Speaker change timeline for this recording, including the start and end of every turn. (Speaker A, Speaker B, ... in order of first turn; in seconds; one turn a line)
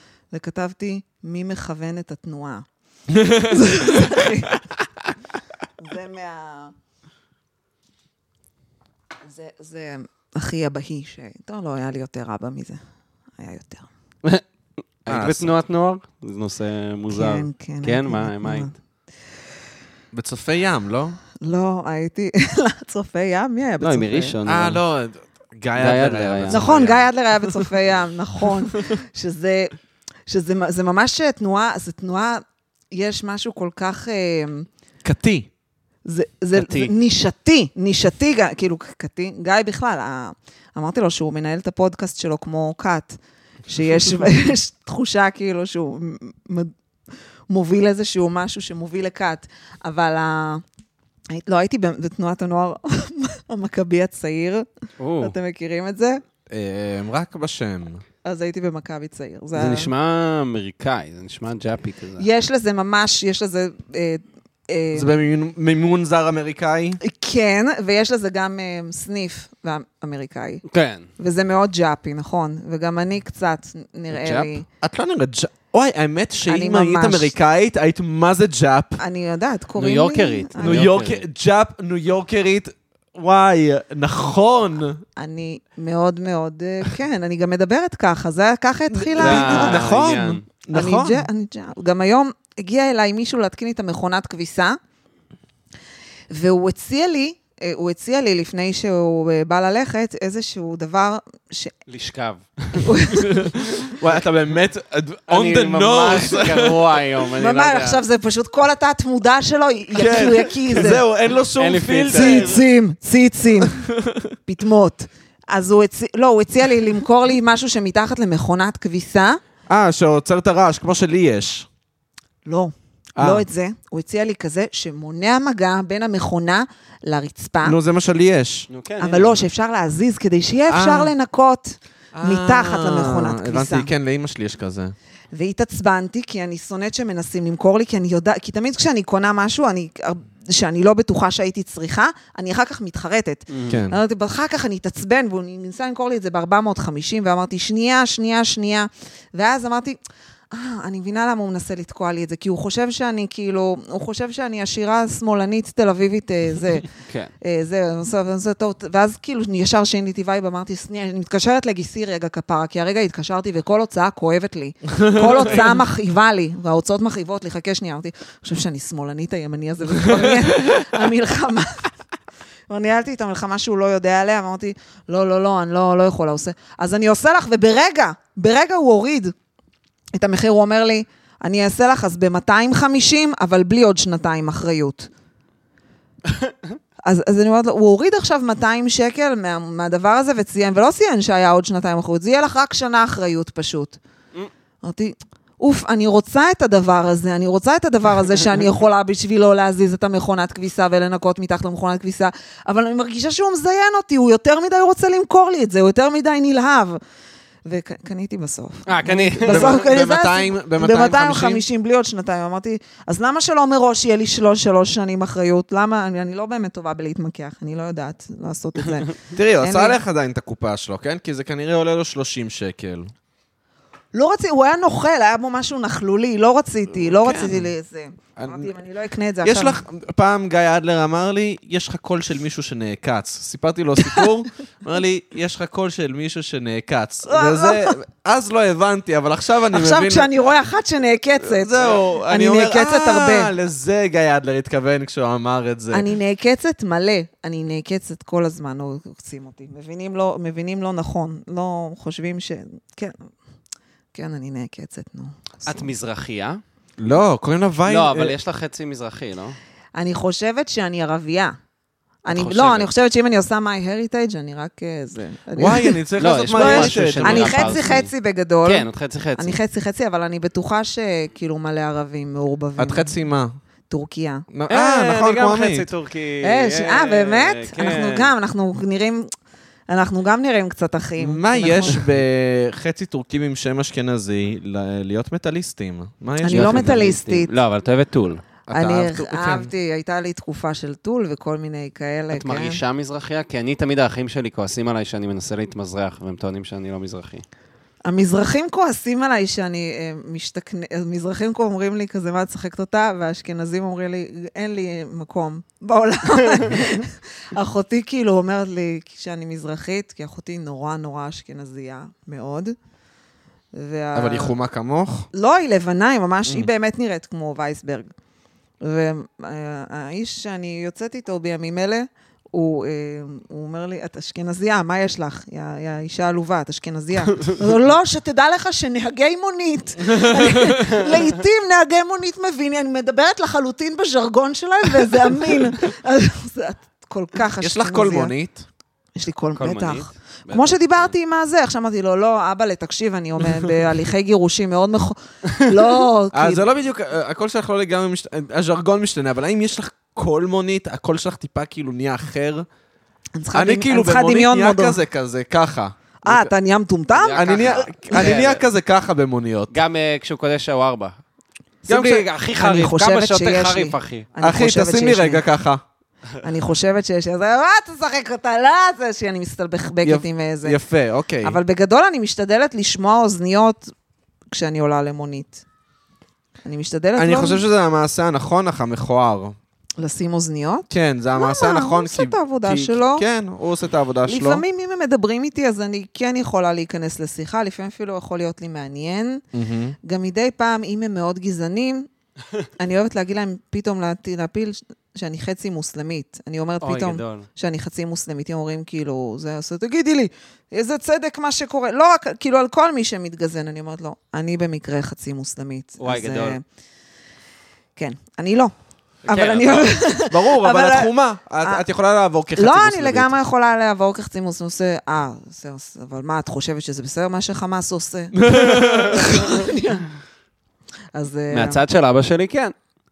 Speaker A: 0.3-2.6
Speaker B: 3.1-4.2
Speaker A: 3.4-4.6
Speaker A: 5.8-6.7
Speaker A: 9.3-12.8
Speaker A: 13.4-13.9
Speaker C: 15.0-18.7
Speaker B: 15.1-15.6
Speaker A: 17.1-18.7
Speaker B: 20.1-21.2
Speaker A: 21.4-24.4
Speaker C: 23.8-24.8
Speaker B: 24.4-27.1
Speaker C: 25.8-26.7
Speaker A: 26.5-29.7
Speaker A: 30.3-34.7
Speaker B: 35.0-35.5
Speaker A: 36.0-46.7
Speaker C: 36.5-36.9
Speaker A: 47.5-50.6
Speaker A: 51.3-54.7
Speaker C: 55.0-55.4
Speaker A: 55.2-56.2
Speaker B: 56.5-58.0
Speaker A: 58.2-59.9
Speaker C: 59.5-62.2
Speaker A: 62.2-65.2
Speaker B: 64.9-67.0
Speaker A: 67.0-70.6
Speaker C: 70.7-71.1
Speaker A: 71.2-74.6
Speaker C: 74.1-74.6
Speaker B: 74.8-79.0
Speaker A: 76.5-77.3
Speaker A: 79.0-80.9
Speaker C: 79.8-81.2
Speaker B: 80.6-85.0
Speaker A: 85.2-89.9
Speaker B: 88.9-91.3
Speaker C: 89.2-90.4
Speaker A: 90.7-94.8
Speaker A: 96.3-101.7
Speaker C: 101.9-103.3
Speaker A: 102.8-103.4
Speaker B: 103.1-107.0
Speaker C: 105.3-108.0
Speaker A: 107.4-111.0
Speaker B: 109.9-112.6
Speaker C: 111.6-112.6
Speaker A: 112.1-113.8
Speaker B: 113.7-114.3
Speaker A: 114.5-119.4
Speaker B: 119.7-121.7
Speaker A: 122.5-127.8
Speaker B: 123.2-123.5
Speaker B: 127.6-128.7
Speaker C: 128.7-129.4
Speaker A: 129.0-133.9
Speaker B: 130.7-131.1
Speaker B: 132.1-134.9
Speaker A: 135.3-150.0
Speaker C: 143.5-143.8
Speaker B: 143.7-144.0
Speaker A: 150.5-156.9
Speaker C: 156.9-157.3
Speaker A: 157.4-171.9
Speaker B: 165.0-165.7
Speaker A: 172.7-179.3
Speaker A: 180.1-185.1
Speaker A: 187.0-194.0
Speaker A: 194.8-207.0
Speaker A: 207.6-220.0
Speaker C: 208.9-209.8
Speaker B: 209.4-211.6
Speaker B: 219.3-223.1
Speaker A: 224.1-229.8
Speaker B: 227.3-227.6
Speaker B: 228.4-228.7
Speaker B: 229.4-240.3
Speaker A: 237.2-238.0
Speaker A: 239.7-243.5
Speaker B: 241.4-246.1
Speaker A: 245.9-253.3
Speaker A: 254.1-255.9
Speaker C: 255.7-256.6
Speaker B: 257.0-258.4
Speaker C: 257.9-259.6
Speaker A: 259.9-261.5
Speaker A: 262.2-273.1
Speaker C: 262.3-262.9
Speaker B: 265.6-268.0
Speaker C: 266.2-268.1
Speaker C: 268.6-269.6
Speaker B: 272.8-273.6
Speaker A: 273.9-274.5
Speaker B: 274.5-275.9
Speaker C: 274.7-278.3
Speaker A: 276.4-279.3
Speaker A: 279.9-282.0
Speaker B: 281.2-287.2
Speaker A: 286.4-287.5
Speaker C: 286.5-288.4
Speaker B: 288.7-289.7
Speaker A: 288.7-292.8
Speaker C: 292.3-297.4
Speaker A: 298.0-312.8
Speaker A: 313.7-314.5
Speaker B: 314.1-315.3
Speaker A: 315.3-318.1
Speaker A: 318.8-338.3
Speaker B: 330.1-330.8
Speaker B: 337.6-338.6
Speaker A: 339.1-346.6
Speaker C: 339.6-341.1
Speaker B: 346.3-352.6
Speaker A: 353.4-355.0
Speaker B: 353.5-356.5
Speaker A: 356.2-358.3
Speaker C: 357.1-358.6
Speaker B: 357.3-359.7
Speaker C: 359.7-361.2
Speaker C: 361.9-364.3
Speaker B: 361.9-362.2
Speaker A: 361.9-365.4
Speaker B: 364.4-365.8
Speaker A: 366.4-370.8
Speaker B: 370.0-371.6
Speaker A: 371.4-373.9
Speaker A: 374.5-375.6
Speaker A: 376.6-377.6
Speaker B: 377.2-379.6
Speaker A: 380.0-383.2
Speaker B: 380.9-384.6
Speaker A: 384.2-389.4
Speaker B: 389.5-390.0
Speaker A: 390.0-392.1
Speaker A: 392.8-406.6
Speaker C: 396.8-397.5
Speaker C: 406.0-406.6
Speaker A: 407.9-408.7
Speaker C: 409.2-409.9
Speaker A: 409.2-411.8
Speaker B: 410.3-413.4
Speaker A: 412.6-420.1
Speaker B: 418.4-419.4
Speaker A: 421.1-421.8
Speaker C: 421.5-422.7